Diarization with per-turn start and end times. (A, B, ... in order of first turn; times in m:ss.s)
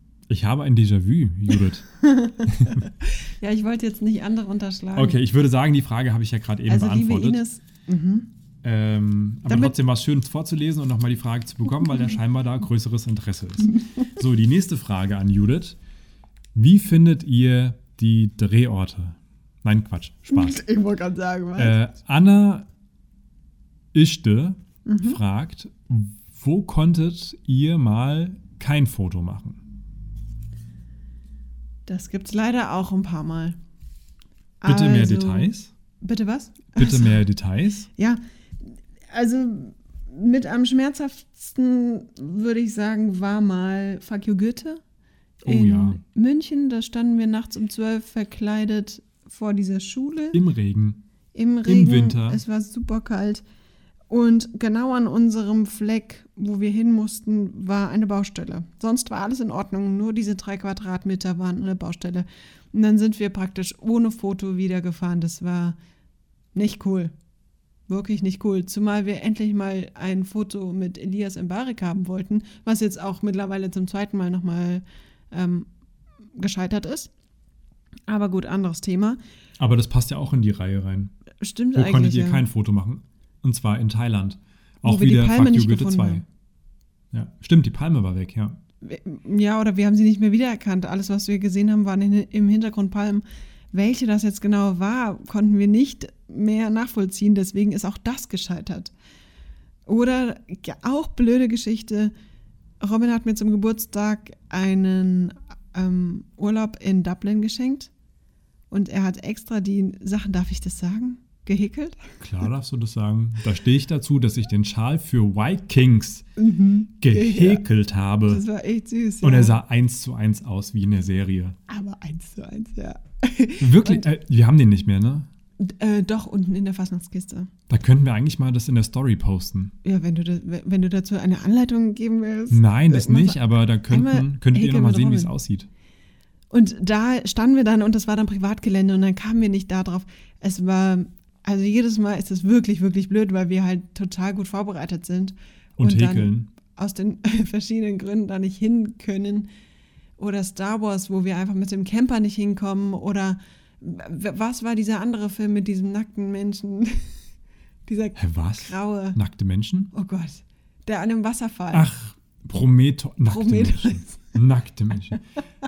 0:00.3-0:01.9 A
0:02.0-0:05.2 B
0:02.4-0:02.8 A
0:05.0-0:07.4 A
0:06.7-0:08.3 B
0:08.6-0:15.8 A
0:09.5-0:09.8 B
0:16.6-0:20.6 A
0:20.3-0:21.8 B
0:21.6-0:22.7 A
0:23.9-0:29.6 A
0:24.9-0:25.2 B
0:31.9-0:33.6 B
0:34.6-0:37.2 B
0:34.6-0:35.7 A
0:36.8-0:37.9 A
0:38.0-0:44.8 B
0:45.4-0:46.0 A
0:45.4-0:50.4 B
0:50.3-0:51.0 A
0:51.3-0:53.4 B
0:51.6-0:52.4 A
0:54.1-1:05.8 B
1:06.5-1:07.1 B
1:07.9-1:15.7 B
1:16.4-1:17.1 B
1:18.1-1:19.2 B
1:19.6-1:21.1 A
1:21.4-1:22.4 B
1:21.7-1:26.2 A
1:24.8-1:26.2 B
1:27.1-1:28.6 A
1:28.8-1:38.9 B
1:39.9-1:42.1 B
1:42.8-1:47.9 B
1:48.7-1:52.1 B
1:52.2-1:56.3 A
1:56.4-1:57.6 B
1:57.0-1:58.4 A
1:58.3-1:59.6 B
1:59.2-2:01.6 A
2:01.7-2:04.1 B
2:03.6-2:05.3 A
2:05.6-2:07.5 B
2:07.7-2:09.7 A
2:09.8-2:15.3 B
2:12.5-2:15.7 A
2:16.5-2:29.5 B
2:25.8-2:26.5 A
2:30.2-2:37.1 B
2:37.9-2:39.2 B
2:38.2-2:39.9 A
2:39.9-2:41.9 B
2:41.7-2:45.2 A
2:43.2-2:44.3 B